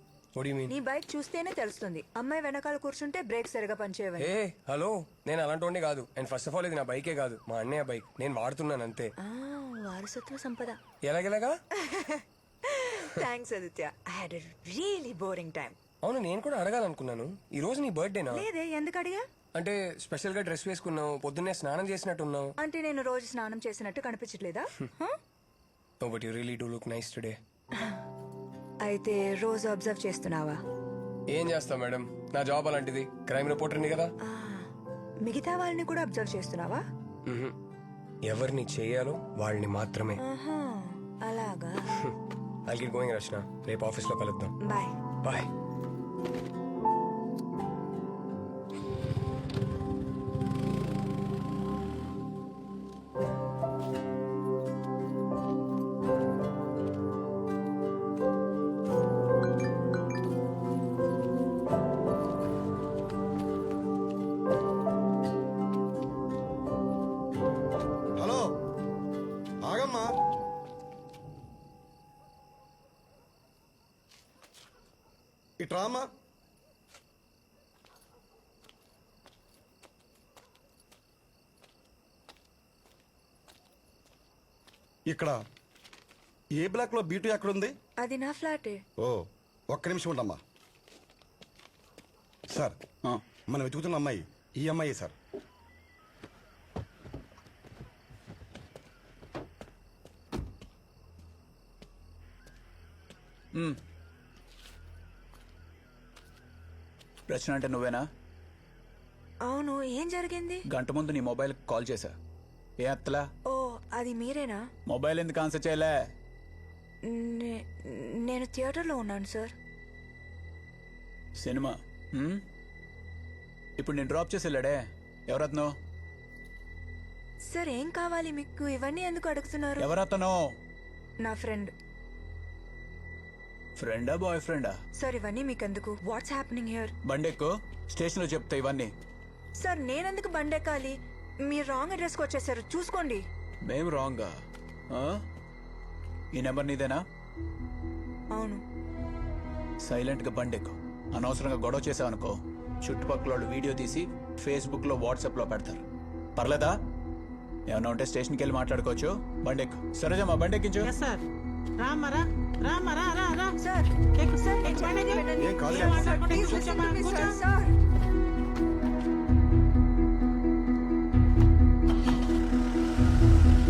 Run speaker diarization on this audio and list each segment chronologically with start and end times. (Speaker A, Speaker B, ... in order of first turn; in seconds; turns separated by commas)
Speaker A: 0.3-0.7, Speaker B: 0.7-4.3, Speaker A: 4.2-9.1, Speaker B: 9.2-10.8, Speaker A: 11.0-11.5, Speaker B: 11.8-15.8, Speaker A: 16.0-18.4, Speaker B: 18.3-19.2, Speaker A: 19.5-22.5, Speaker B: 22.6-25.1, Speaker A: 26.0-27.4, Speaker B: 27.7-28.0, Speaker B: 28.8-30.6, Speaker A: 31.3-34.1, Speaker B: 34.2-34.7, Speaker B: 35.2-36.8, Speaker A: 37.3-37.5, Speaker A: 38.3-40.2, Speaker B: 40.2-41.9, Speaker A: 42.7-44.5, Speaker B: 44.6-44.9, Speaker A: 45.2-45.5, Speaker C: 68.2-68.6, Speaker C: 69.6-70.1, Speaker C: 75.6-76.1, Speaker C: 85.0-85.4, Speaker C: 86.5-87.8, Speaker B: 88.0-88.8, Speaker C: 89.0-90.4, Speaker C: 92.5-92.8, Speaker C: 93.5-95.1, Speaker D: 107.3-108.1, Speaker B: 109.4-110.7, Speaker D: 110.6-112.2, Speaker D: 112.8-113.3, Speaker B: 113.5-114.6, Speaker D: 114.9-116.0, Speaker B: 117.0-119.5, Speaker D: 121.4-122.4, Speaker D: 123.8-125.7, Speaker B: 127.5-129.9, Speaker D: 129.8-130.4, Speaker B: 131.2-131.7, Speaker D: 133.8-134.8, Speaker B: 135.0-136.9, Speaker D: 137.0-138.9, Speaker B: 139.6-143.2, Speaker D: 143.7-144.3, Speaker D: 144.9-145.2, Speaker D: 146.3-147.0, Speaker B: 148.3-148.6, Speaker D: 149.8-155.8, Speaker D: 156.3-156.8, Speaker D: 157.7-160.9, Speaker E: 160.8-161.2, Speaker E: 161.8-163.6, Speaker B: 163.6-167.7, Speaker E: 164.1-167.4, Speaker C: 165.3-165.9